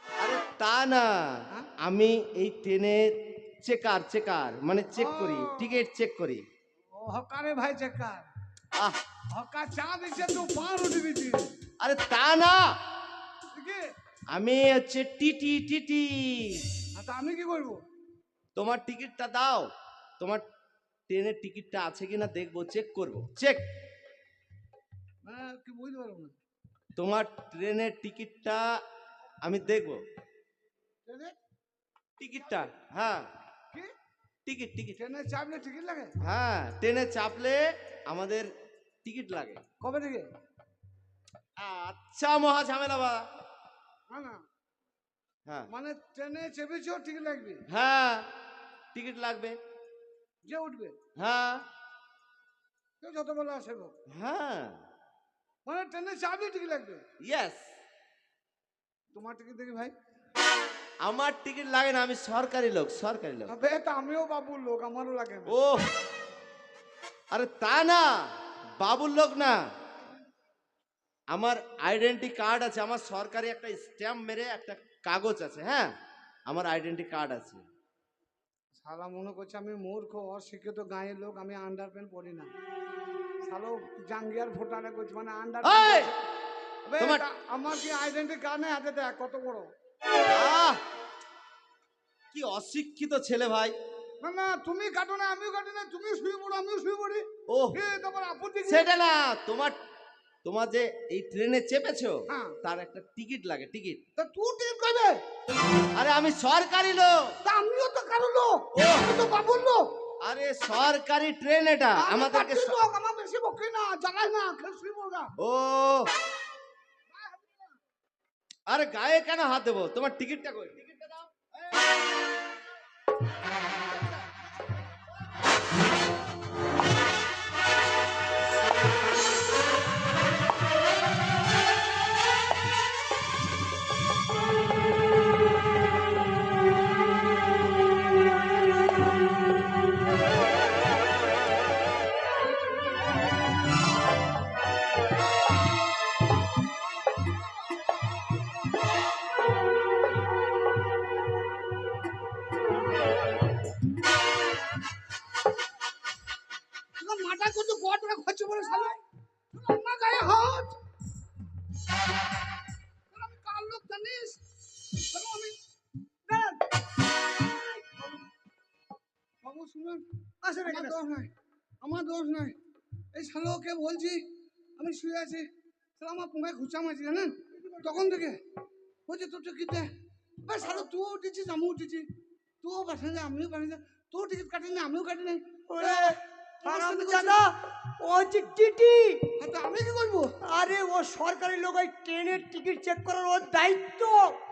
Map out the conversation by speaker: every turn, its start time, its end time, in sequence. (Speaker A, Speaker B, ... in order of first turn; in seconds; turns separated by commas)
Speaker A: 0.2-6.4, Speaker B: 4.9-5.8, Speaker B: 6.9-8.3, Speaker A: 8.7-9.0, Speaker B: 9.3-11.5, Speaker A: 11.8-12.6, Speaker B: 13.5-13.8, Speaker A: 14.3-16.6, Speaker B: 16.9-17.8, Speaker A: 18.5-20.4, Speaker A: 21.1-23.6, Speaker B: 25.2-26.3, Speaker A: 26.9-28.7, Speaker A: 29.4-30.0, Speaker B: 31.1-31.3, Speaker A: 32.2-33.2, Speaker A: 34.5-35.0, Speaker B: 35.0-36.1, Speaker A: 36.2-38.5, Speaker A: 39.0-39.6, Speaker B: 39.8-40.3, Speaker A: 41.6-43.2, Speaker B: 44.1-44.4, Speaker B: 45.7-47.6, Speaker A: 47.7-48.3, Speaker A: 48.9-49.6, Speaker B: 50.4-51.0, Speaker A: 51.2-51.6, Speaker B: 53.0-53.9, Speaker A: 54.1-54.8, Speaker B: 55.6-57.0, Speaker A: 57.2-57.6, Speaker B: 59.1-59.9, Speaker A: 61.0-63.5, Speaker B: 63.5-65.5, Speaker A: 65.5-65.9, Speaker A: 67.3-68.0, Speaker A: 68.8-69.5, Speaker A: 71.3-75.9, Speaker A: 76.5-77.6, Speaker B: 78.8-82.5, Speaker B: 83.4-86.1, Speaker A: 85.6-86.1, Speaker B: 86.9-89.7, Speaker A: 87.0-87.2, Speaker A: 90.3-90.8, Speaker A: 92.3-93.7, Speaker B: 94.2-98.9, Speaker A: 97.5-97.8, Speaker A: 98.7-99.7, Speaker A: 100.4-104.0, Speaker B: 102.3-102.5, Speaker B: 104.2-105.2, Speaker A: 106.0-107.3, Speaker B: 107.4-109.8, Speaker A: 108.8-109.1, Speaker A: 110.2-112.8, Speaker B: 112.0-115.3, Speaker A: 115.4-116.1, Speaker B: 117.1-117.6, Speaker A: 118.7-121.5, Speaker B: 157.0-159.0, Speaker B: 159.5-160.7, Speaker B: 163.1-164.4, Speaker B: 165.1-165.6, Speaker C: 166.3-166.6, Speaker C: 167.5-168.0, Speaker B: 169.4-170.0, Speaker C: 170.4-171.0, Speaker B: 170.7-171.3, Speaker B: 171.8-172.5, Speaker B: 173.1-174.2, Speaker B: 174.8-178.4, Speaker B: 179.1-179.9, Speaker B: 180.4-182.1, Speaker B: 182.6-187.4, Speaker C: 185.7-189.2, Speaker B: 189.4-190.3, Speaker C: 190.5-194.3